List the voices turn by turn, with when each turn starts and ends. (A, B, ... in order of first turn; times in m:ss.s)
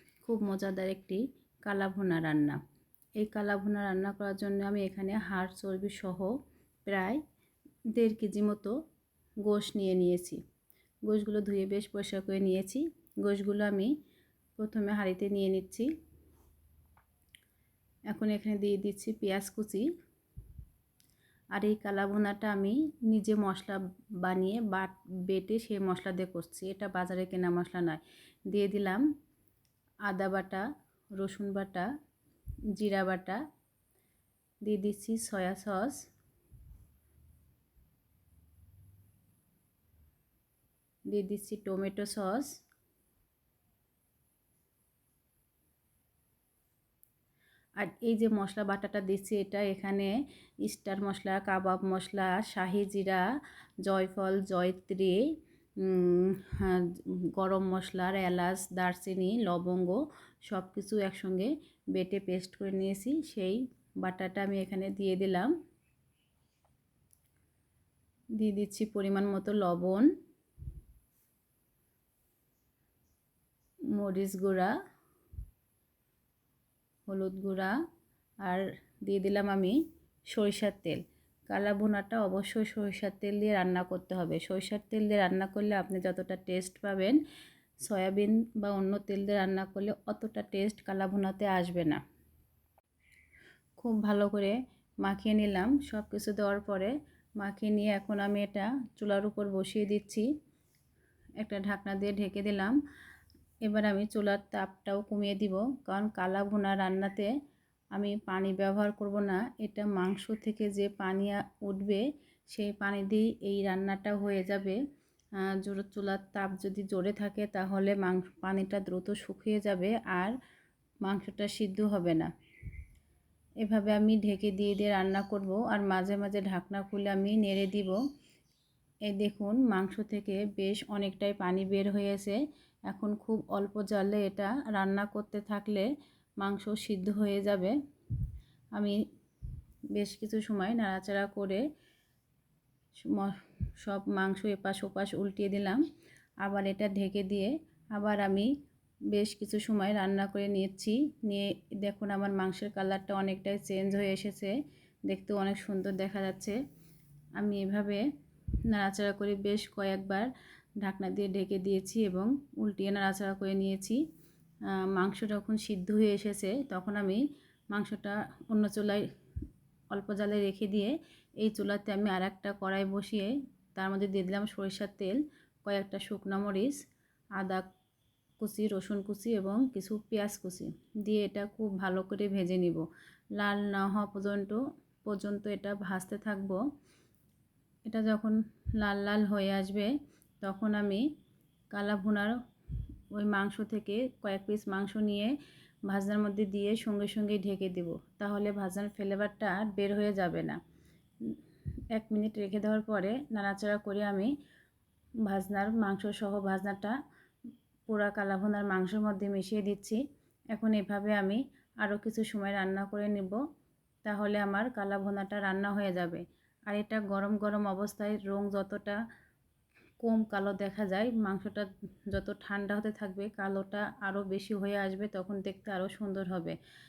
0:00.2-0:02.6 A
0:03.2-0:06.3 A
0:06.9-0:07.2 A
0:08.0-0:08.8 A
0:09.5-0:10.4 A
0:11.1-0:13.9 A
0:14.6-0:15.9 A
0:18.1-0:19.9 A
0:21.6-0:29.0 A
0:30.1-0:30.6 A
0:31.2-0:31.9 A
0:32.8-0:33.4 A
0:34.7-0:36.0 A
0:41.1-0:42.5 A
0:47.8-0:50.1 A
0:50.6-0:53.2 A
0:53.8-0:55.2 A
0:55.8-1:05.5 A
1:08.4-1:10.1 A
1:14.0-1:14.7 A
1:17.1-1:17.8 A
1:18.4-1:19.8 A
1:20.3-1:27.2 A
1:27.9-1:32.0 A
1:33.8-1:40.3 A
1:41.4-1:42.8 A
1:43.6-1:47.3 A
1:48.0-1:54.8 A
1:55.5-2:00.4 A
2:01.0-2:02.3 A
2:03.6-2:08.0 A
2:09.1-2:12.4 A
2:12.9-2:15.9 A
2:16.4-2:17.8 A
2:19.9-2:21.6 A
2:23.0-2:25.8 A
2:26.4-2:28.5 A
2:29.1-2:34.6 A
2:35.1-2:36.6 A
2:37.4-2:38.0 A
2:38.7-2:40.3 A
2:40.8-2:44.0 A
2:44.8-2:49.0 A
2:49.9-2:56.8 A
2:57.4-2:57.6 A
2:58.4-3:02.8 A
3:03.4-3:06.6 A
3:07.9-3:11.0 A
3:11.7-3:12.4 A
3:13.1-3:15.3 A
3:15.9-3:20.6 A
3:21.9-3:24.3 A
3:25.3-3:27.0 A
3:27.9-3:30.0 A
3:30.5-3:33.4 A
3:34.0-3:39.0 A
3:40.0-3:46.6 A